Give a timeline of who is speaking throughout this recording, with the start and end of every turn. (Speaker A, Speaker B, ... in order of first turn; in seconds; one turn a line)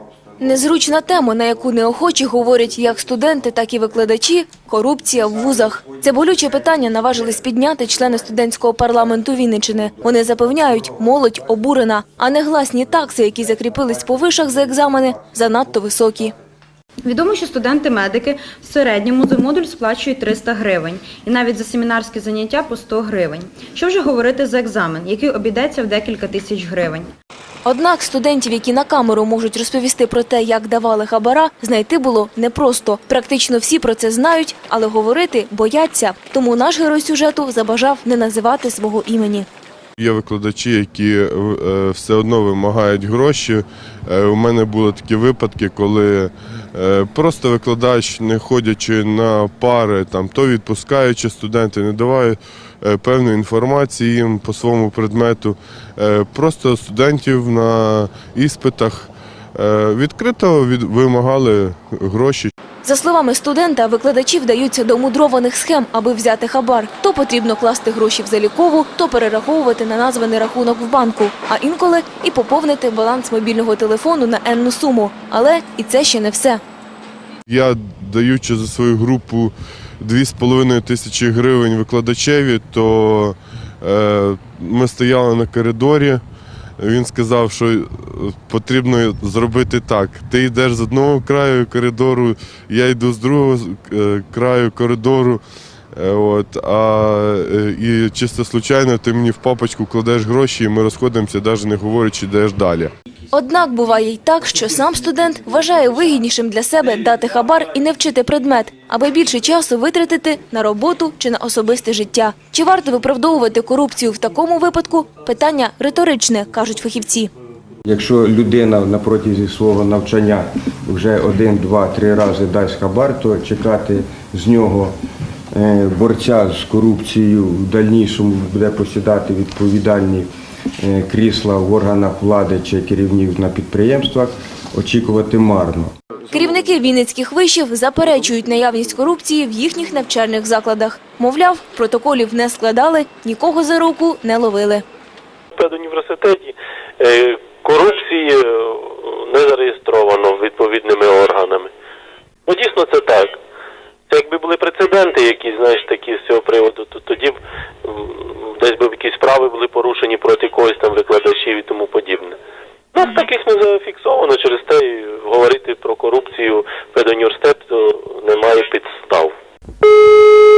Speaker A: 0.4-16.3
Speaker B: 17.0-27.1
Speaker A: 27.6-39.5
Speaker C: 40.0-62.5
Speaker A: 62.8-76.6
Speaker C: 77.5-86.2
Speaker C: 86.8-95.4
Speaker C: 95.9-102.9
Speaker A: 103.3-117.3
Speaker D: 117.8-124.9
Speaker D: 125.5-130.3
Speaker D: 130.8-135.9
Speaker A: 136.3-144.8
Speaker E: 145.5-151.7
Speaker E: 152.5-153.3
Speaker E: 154.1-162.3
Speaker E: 162.9-169.3